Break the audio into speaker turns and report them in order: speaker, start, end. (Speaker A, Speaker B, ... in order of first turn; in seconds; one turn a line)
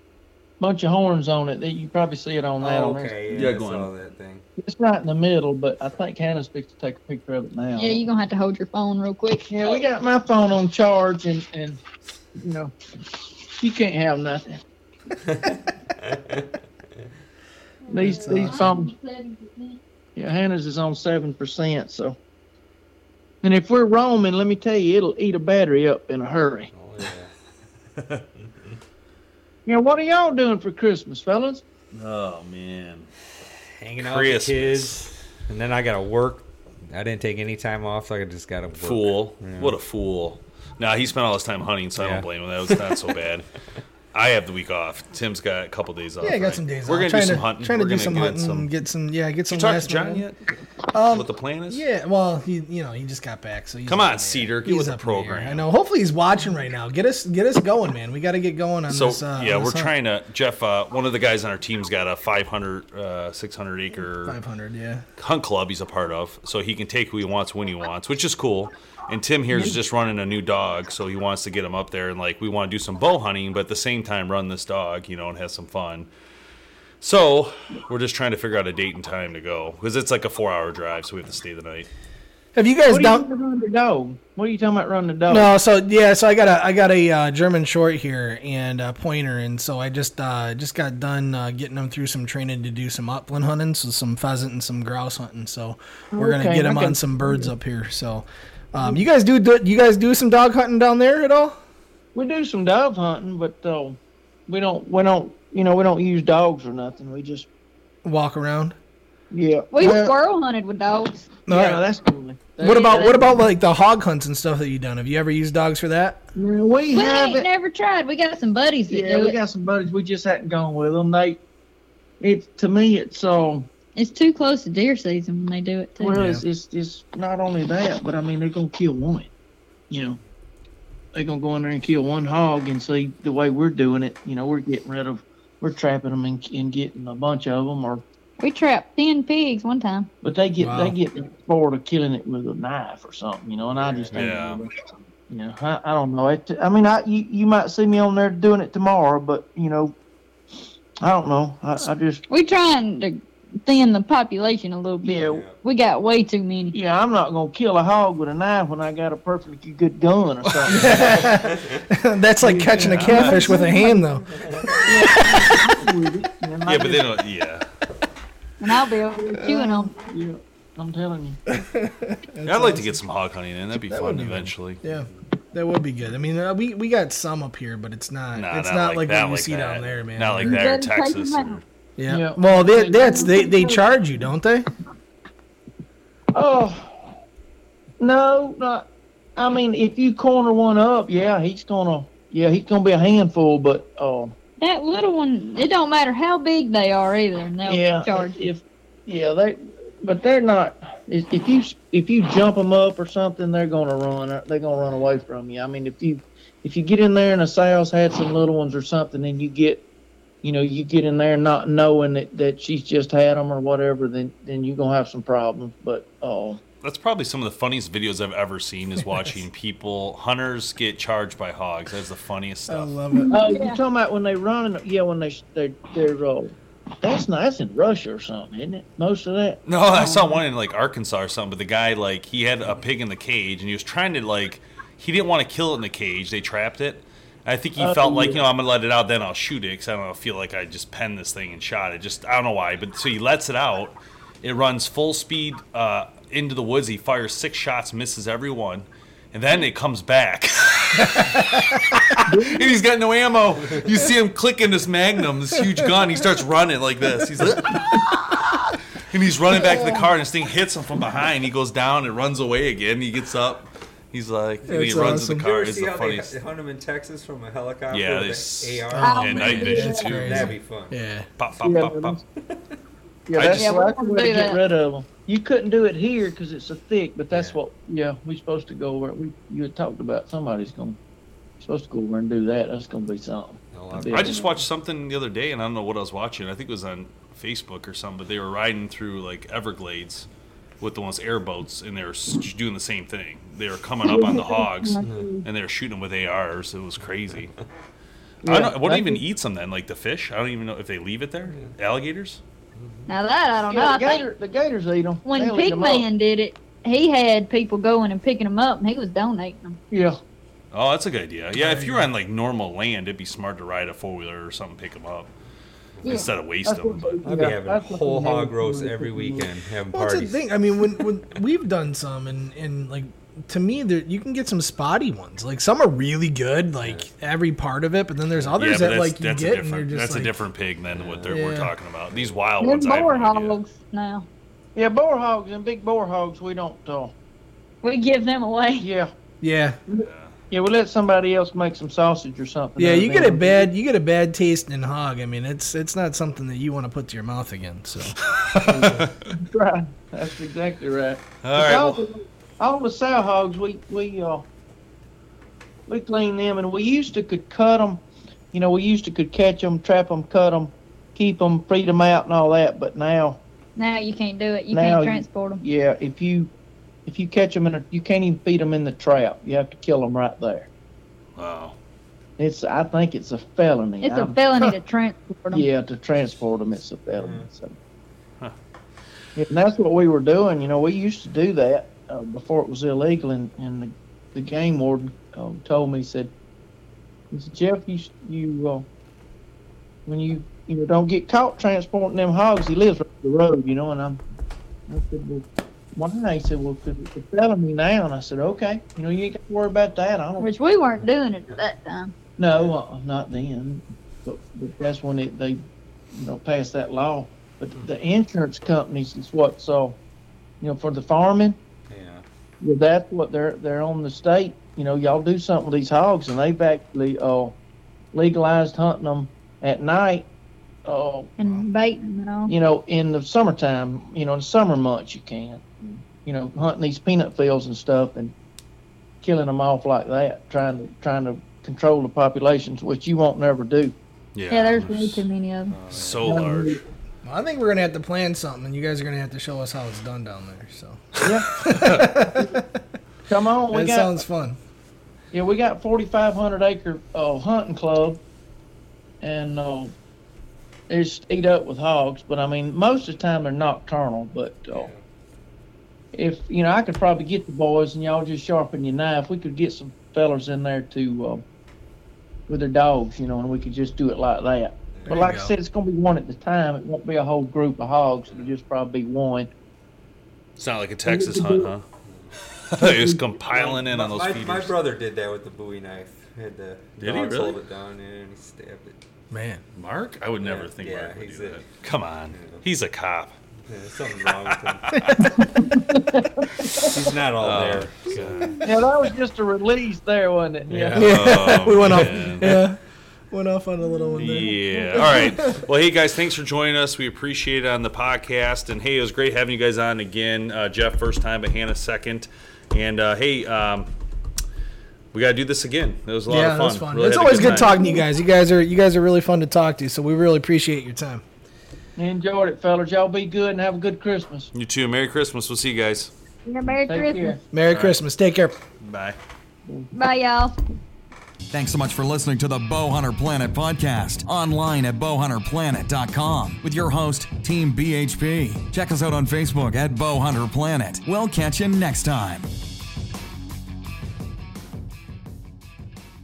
Speaker A: 0.6-3.4
Speaker B: 2.6-4.5
Speaker C: 3.3-3.9
Speaker A: 4.6-8.0
Speaker D: 7.8-9.8
Speaker A: 9.5-11.8
Speaker A: 12.4-12.7
Speaker A: 13.6-14.6
Speaker D: 17.9-19.8
Speaker A: 17.9-18.9
Speaker E: 18.3-18.6
Speaker A: 20.2-22.2
Speaker A: 23.4-26.7
Speaker B: 26.7-27.3
Speaker C: 28.0-28.2
Speaker A: 29.7-31.6
Speaker C: 31.9-33.1
Speaker B: 33.8-39.8
Speaker C: 34.0-35.0
Speaker C: 38.8-43.5
Speaker B: 42.0-43.1
Speaker C: 44.1-48.7
Speaker E: 46.2-50.2
Speaker C: 49.5-50.4
Speaker E: 50.9-59.9
Speaker C: 51.1-51.8
Speaker C: 53.9-55.7
Speaker C: 58.9-64.4
Speaker E: 64.2-65.0
Speaker C: 65.2-76.1
Speaker C: 77.0-81.9
Speaker E: 82.5-83.2
Speaker A: 82.9-85.5
Speaker E: 85.3-101.6
Speaker A: 96.2-97.5
Speaker A: 98.8-99.0
Speaker A: 102.2-107.5
Speaker E: 108.0-108.8
Speaker A: 109.3-110.2
Speaker D: 109.7-111.3
Speaker E: 111.5-111.8
Speaker A: 111.5-113.4
Speaker D: 112.6-113.2
Speaker E: 112.6-116.2
Speaker A: 116.3-117.5
Speaker D: 116.9-119.4
Speaker A: 118.9-121.4
Speaker A: 122.2-123.7
Speaker D: 124.0-126.2
Speaker A: 126.0-129.3
Speaker E: 126.2-126.4
Speaker A: 129.9-130.2
Speaker A: 131.2-138.0
Speaker D: 138.4-140.1
Speaker A: 140.2-144.8
Speaker E: 140.6-140.9
Speaker B: 143.7-144.3
Speaker C: 144.1-144.6
Speaker A: 145.3-150.0
Speaker A: 151.0-152.2
Speaker D: 152.3-156.8
Speaker A: 155.0-155.4
Speaker B: 155.2-155.6
Speaker A: 156.7-161.3
Speaker C: 160.4-160.8
Speaker E: 160.7-164.3
Speaker B: 161.5-161.8
Speaker A: 162.4-164.1
Speaker C: 162.8-163.5
Speaker B: 164.3-164.9
Speaker A: 164.8-167.1
Speaker C: 166.6-167.7
Speaker D: 168.6-169.9
Speaker E: 169.3-169.9
Speaker A: 170.0-171.4
Speaker E: 171.5-173.0
Speaker C: 172.4-174.8
Speaker E: 173.8-180.6
Speaker C: 178.3-181.6
Speaker D: 180.4-181.6
Speaker E: 182.0-184.7
Speaker A: 182.1-183.9
Speaker A: 186.3-187.1
Speaker A: 188.0-194.3
Speaker D: 194.6-198.4
Speaker A: 197.7-209.8
Speaker A: 210.4-216.6
Speaker C: 216.8-222.9
Speaker E: 222.7-223.5
Speaker D: 223.2-223.8
Speaker A: 223.3-230.4
Speaker C: 229.7-251.8
Speaker A: 237.8-238.5
Speaker E: 251.2-252.2
Speaker A: 252.3-252.7
Speaker C: 252.4-258.5
Speaker C: 259.1-266.3
Speaker E: 264.7-265.5
Speaker B: 265.2-271.0
Speaker C: 267.9-270.5
Speaker E: 268.9-271.3
Speaker D: 269.0-270.1
Speaker C: 271.4-272.2
Speaker A: 271.6-272.2
Speaker B: 272.4-272.8
Speaker A: 273.3-281.0
Speaker C: 273.3-273.7
Speaker D: 273.5-274.6
Speaker B: 277.3-277.6
Speaker A: 281.6-284.5
Speaker B: 283.7-284.5
Speaker C: 284.1-290.3
Speaker C: 290.8-297.5
Speaker A: 294.0-295.4
Speaker B: 295.0-295.3
Speaker A: 298.4-299.2
Speaker C: 298.4-302.4
Speaker B: 302.8-303.1
Speaker D: 303.1-304.2
Speaker A: 303.7-306.1
Speaker D: 305.2-309.8
Speaker A: 309.9-310.2
Speaker C: 310.7-315.3
Speaker E: 311.6-312.1
Speaker B: 316.0-316.3
Speaker D: 316.0-316.3
Speaker C: 316.1-317.3
Speaker A: 316.6-319.5
Speaker B: 317.2-321.0
Speaker E: 319.9-330.4
Speaker B: 326.8-327.1
Speaker B: 328.3-328.8
Speaker C: 328.6-333.6
Speaker B: 330.9-331.4
Speaker E: 331.3-331.7
Speaker B: 332.1-332.4
Speaker D: 332.6-334.3
Speaker A: 334.8-337.1
Speaker D: 337.8-338.9
Speaker A: 338.8-339.1
Speaker E: 339.4-339.8
Speaker A: 339.9-343.7
Speaker C: 340.0-340.4
Speaker E: 342.8-349.1
Speaker C: 348.2-349.1
Speaker A: 349.3-354.5
Speaker C: 351.4-352.1
Speaker A: 355.9-358.0
Speaker A: 358.5-363.4
Speaker D: 363.8-365.6
Speaker A: 364.7-366.5
Speaker A: 367.1-370.7
Speaker C: 371.4-371.8
Speaker A: 372.4-374.4
Speaker D: 374.0-375.7
Speaker A: 375.5-377.8
Speaker B: 377.1-377.5
Speaker A: 379.4-386.3
Speaker A: 387.3-388.9
Speaker A: 390.1-394.2
Speaker A: 394.9-400.5
Speaker D: 400.4-402.1
Speaker A: 402.4-405.6
Speaker B: 402.5-402.8
Speaker A: 406.1-410.0
Speaker A: 410.6-411.6
Speaker B: 411.9-412.2
Speaker A: 412.6-417.6
Speaker A: 418.1-420.3
Speaker A: 420.9-421.3
Speaker D: 421.4-422.5
Speaker A: 422.5-428.3
Speaker A: 429.2-433.9
Speaker C: 434.4-435.3
Speaker D: 434.5-435.8
Speaker B: 435.7-436.4
Speaker C: 435.9-436.8
Speaker A: 436.2-436.8
Speaker E: 437.2-442.8
Speaker A: 441.2-441.6
Speaker A: 443.3-444.2
Speaker E: 443.7-444.6
Speaker A: 445.3-448.2
Speaker A: 449.2-449.9
Speaker A: 450.9-454.9
Speaker B: 454.7-455.0
Speaker A: 456.1-461.4
Speaker A: 462.5-469.5
Speaker E: 465.1-465.5
Speaker C: 470.6-471.8
Speaker A: 471.1-471.7
Speaker B: 472.0-472.4
Speaker C: 472.6-474.7
Speaker A: 472.8-473.2
Speaker B: 473.5-479.0
Speaker C: 477.0-477.6
Speaker E: 479.3-479.6
Speaker C: 479.8-483.4
Speaker B: 480.4-481.7
Speaker B: 482.3-482.6
Speaker B: 483.7-485.1
Speaker C: 484.3-485.4
Speaker E: 484.9-485.7
Speaker A: 485.6-487.0
Speaker B: 486.7-488.7
Speaker C: 487.4-488.6
Speaker A: 488.6-491.5
Speaker B: 490.7-491.2
Speaker E: 490.9-492.8
Speaker C: 491.0-492.7
Speaker B: 491.8-492.1
Speaker E: 493.3-495.6
Speaker C: 494.1-503.9
Speaker C: 505.1-507.9
Speaker E: 506.3-511.2
Speaker D: 507.5-508.0
Speaker A: 512.0-514.5
Speaker C: 514.5-516.1
Speaker D: 516.5-517.4
Speaker A: 516.9-517.4
Speaker E: 517.5-518.6
Speaker C: 517.7-518.0
Speaker C: 518.8-519.2
Speaker D: 519.9-520.5
Speaker F: 521.5-532.5